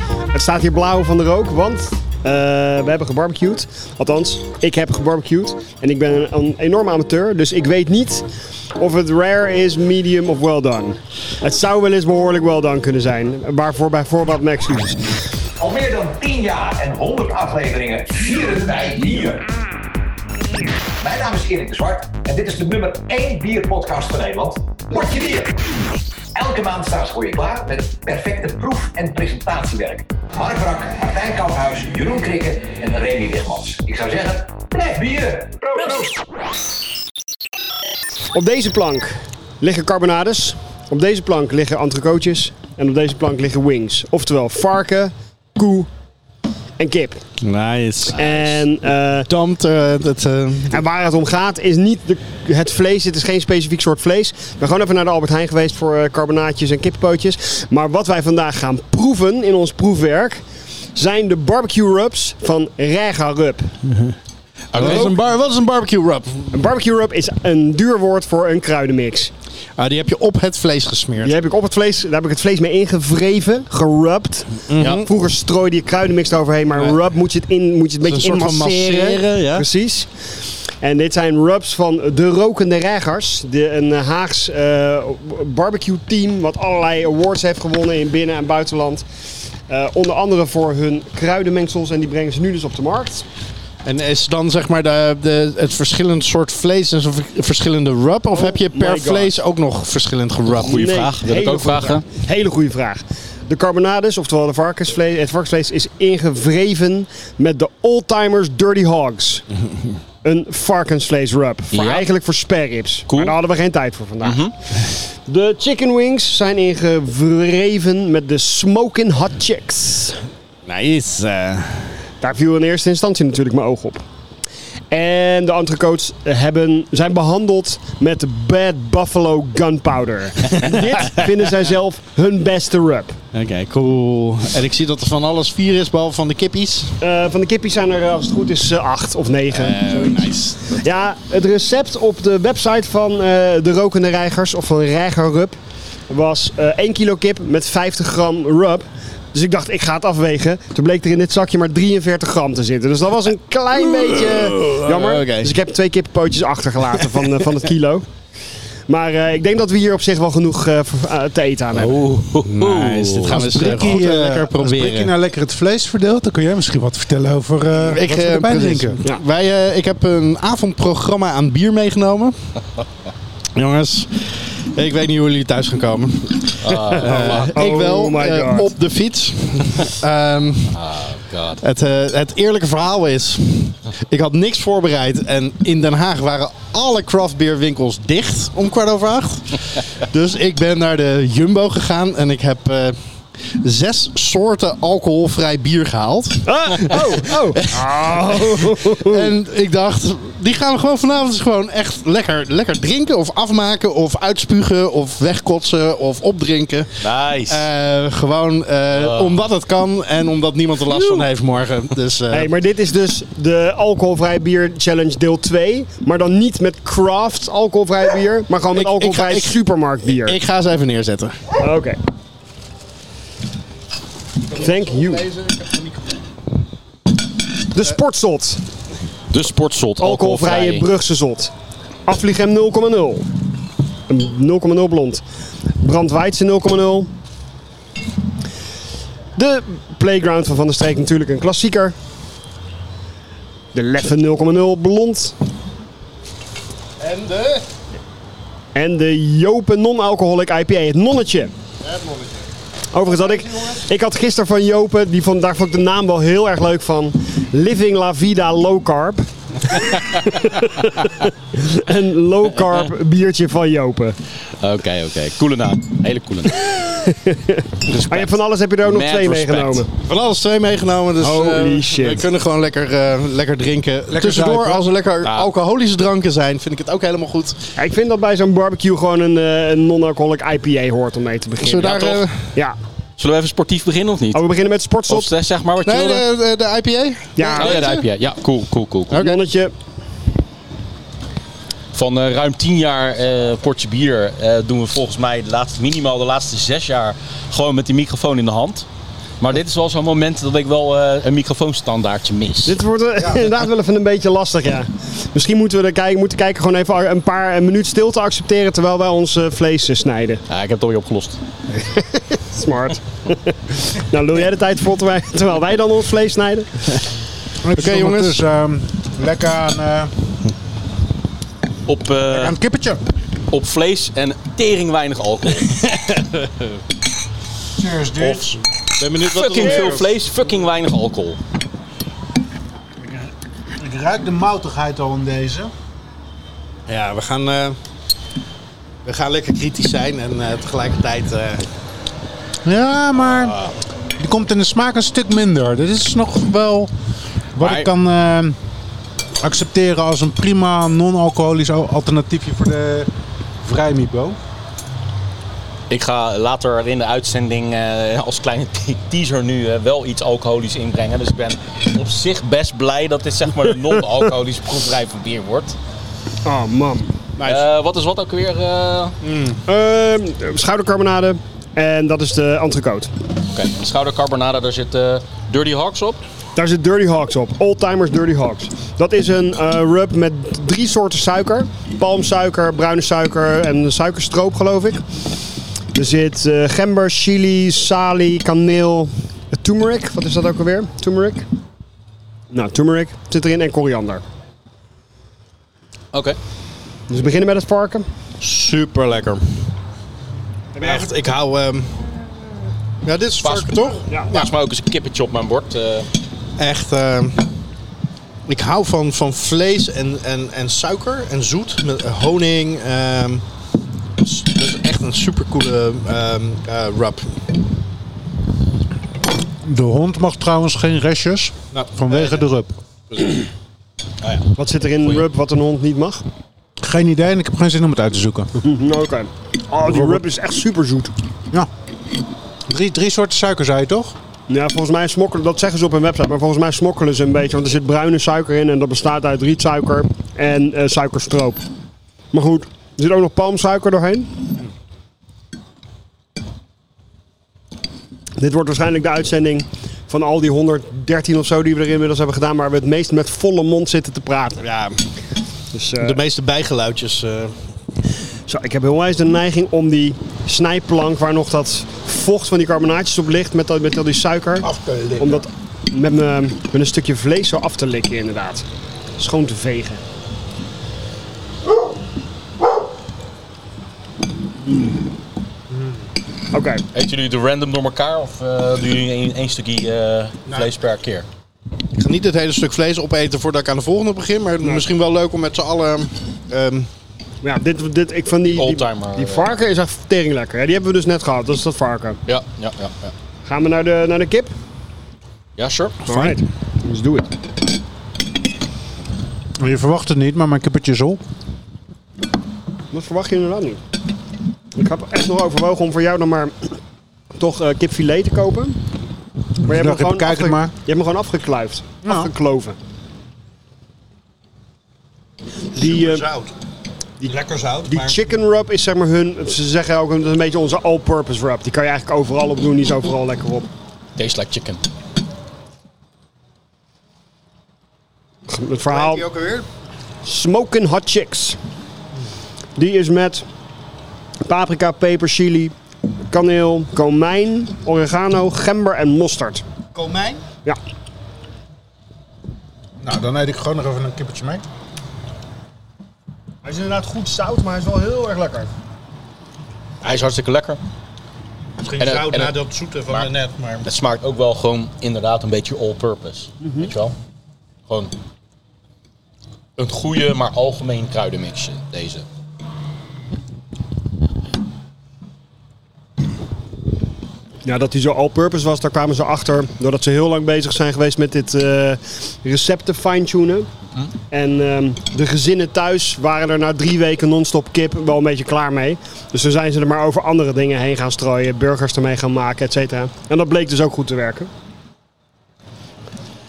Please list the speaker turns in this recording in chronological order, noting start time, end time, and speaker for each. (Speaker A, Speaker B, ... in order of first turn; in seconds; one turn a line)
Speaker A: 0.3-8.2
Speaker A: 8.8-15.3
Speaker B: 15.6-19.5
Speaker B: 21.0-25.6
Speaker B: 26.3-36.1
Speaker A: 38.3-45.9
Speaker A: 46.8-47.2
Speaker C: 47.4-48.7
Speaker A: 48.1-49.3
Speaker C: 49.2-50.8
Speaker A: 50.7-60.4
Speaker A: 61.0-63.7
Speaker C: 64.7-66.5
Speaker D: 64.7-65.1
Speaker A: 64.8-65.1
Speaker A: 66.5-69.3
Speaker C: 69.8-71.4
Speaker A: 71.2-89.1
Speaker C: 74.6-75.1
Speaker D: 74.8-75.0
Speaker C: 78.0-79.7
Speaker A: 89.7-93.2
Speaker C: 93.8-101.0
Speaker A: 98.3-99.4
Speaker D: 100.4-102.0
Speaker A: 100.6-109.4
Speaker A: 110.2-120.2
Speaker D: 111.7-112.1
Speaker D: 113.1-113.4
Speaker D: 114.2-114.5
Speaker C: 120.6-122.0
Speaker A: 122.2-124.0
Speaker A: 124.9-133.2
Speaker C: 130.6-131.2
Speaker C: 133.3-136.9
Speaker A: 137.0-145.6
Speaker C: 139.5-140.9
Speaker A: 146.1-158.1
Speaker C: 153.7-155.5
Speaker C: 156.9-157.3
Speaker A: 158.9-162.1
Speaker D: 161.8-163.7
Speaker E: 162.4-169.0
Speaker C: 162.5-165.1
Speaker C: 167.7-172.3
Speaker C: 173.5-180.8
Speaker D: 176.6-177.6
Speaker A: 176.8-178.7
Speaker D: 180.7-181.6
Speaker C: 181.6-212.5
Speaker A: 196.4-199.3
Speaker D: 207.0-207.7
Speaker D: 208.9-209.4
Speaker D: 210.9-211.2
Speaker A: 212.3-220.4
Speaker C: 218.7-221.4
Speaker A: 221.6-222.0
Speaker C: 224.5-226.0
Speaker A: 224.5-225.2
Speaker A: 227.7-228.6
Speaker D: 229.3-230.9
Speaker A: 230.0-231.5
Speaker A: 232.1-233.2
Speaker A: 234.1-235.2
Speaker A: 235.8-237.1
Speaker A: 239.3-241.9
Speaker A: 243.7-245.3
Speaker C: 247.0-247.6
Speaker A: 248.7-251.5
Speaker C: 251.8-252.5
Speaker A: 252.9-264.2
Speaker C: 253.1-253.8
Speaker D: 264.6-266.7
Speaker A: 266.6-269.9
Speaker D: 267.9-269.9
Speaker C: 270.0-277.7
Speaker A: 271.2-272.2
Speaker E: 274.1-274.8
Speaker D: 275.2-275.5
Speaker A: 277.8-282.8
Speaker C: 281.6-282.5
Speaker D: 281.8-282.2
Speaker D: 283.2-284.4
Speaker A: 284.3-285.3
Speaker D: 285.1-286.2
Speaker C: 285.8-288.1
Speaker A: 287.4-287.8
Speaker D: 287.5-289.2
Speaker C: 289.1-289.4
Speaker A: 289.1-289.7
Speaker D: 291.9-298.9
Speaker D: 299.4-302.8
Speaker A: 302.6-310.4
Speaker D: 310.5-311.4
Speaker A: 311.7-316.9
Speaker E: 317.6-320.1
Speaker C: 317.7-318.4
Speaker D: 321.9-322.6
Speaker E: 322.3-323.0
Speaker D: 323.5-325.9
Speaker E: 327.8-328.6
Speaker D: 328.2-328.4
Speaker C: 329.0-330.1
Speaker D: 329.2-331.4
Speaker E: 333.8-335.7
Speaker C: 336.9-337.8
Speaker C: 339.0-341.6
Speaker E: 342.6-343.6
Speaker D: 343.2-343.7
Speaker E: 344.2-346.9
Speaker E: 347.5-348.6
Speaker D: 347.6-347.9
Speaker E: 349.4-353.1
Speaker E: 353.6-354.4
Speaker D: 355.9-365.8
Speaker A: 366.4-367.1
Speaker C: 367.4-367.6
Speaker D: 367.4-369.2
Speaker C: 369.2-369.6
Speaker A: 369.7-373.1
Speaker D: 373.5-376.2
Speaker A: 376.6-385.0
Speaker A: 385.9-391.4
Speaker A: 392.5-394.2
Speaker D: 396.1-396.4
Speaker A: 397.1-398.1
Speaker C: 398.4-399.4
Speaker A: 400.8-401.1
Speaker C: 400.8-402.1
Speaker C: 403.0-404.5
Speaker D: 403.4-406.1
Speaker C: 406.6-407.5
Speaker C: 408.4-413.4
Speaker C: 414.2-417.3
Speaker E: 419.6-422.7
Speaker C: 421.7-422.4
Speaker C: 423.1-423.4
Speaker A: 424.6-426.2
Speaker E: 426.8-428.5
Speaker A: 428.6-431.1
Speaker E: 429.9-430.2
Speaker E: 432.7-434.1
Speaker A: 434.5-441.6
Speaker A: 442.3-444.4
Speaker A: 448.4-454.6
Speaker C: 454.6-455.0
Speaker A: 455.7-456.2
Speaker C: 456.0-457.6
Speaker A: 458.5-464.6
Speaker C: 464.6-465.4
Speaker A: 465.2-468.6
Speaker A: 469.2-470.0
Speaker A: 476.5-476.8
Speaker D: 476.9-481.3
Speaker C: 480.5-480.7
Speaker C: 481.9-486.9
Speaker A: 484.6-484.9
Speaker A: 487.4-492.2
Speaker D: 488.5-489.5
Speaker D: 492.2-493.1
Speaker A: 493.4-494.5
Speaker D: 495.6-496.0
Speaker A: 496.1-497.3
Speaker C: 496.1-496.4
Speaker E: 499.6-501.2
Speaker A: 502.9-503.8
Speaker A: 504.7-506.7
Speaker A: 507.3-508.8
Speaker E: 509.6-510.7
Speaker A: 509.6-512.8
Speaker E: 512.0-512.3
Speaker C: 515.7-516.5
Speaker A: 515.7-516.2
Speaker A: 517.2-523.7
Speaker C: 517.2-518.2
Speaker D: 524.2-524.8
Speaker A: 528.5-529.2
Speaker C: 528.9-529.6
Speaker A: 530.2-531.6
Speaker A: 532.8-533.4
Speaker A: 534.4-535.7
Speaker A: 536.3-539.6
Speaker C: 539.9-540.4
Speaker E: 543.0-544.6
Speaker A: 546.6-548.7
Speaker D: 550.0-550.8
Speaker C: 551.8-553.9
Speaker D: 552.0-552.6
Speaker D: 553.8-557.1
Speaker A: 556.6-556.9
Speaker D: 557.9-558.1
Speaker D: 559.8-562.2
Speaker A: 567.6-573.7
Speaker A: 574.3-584.5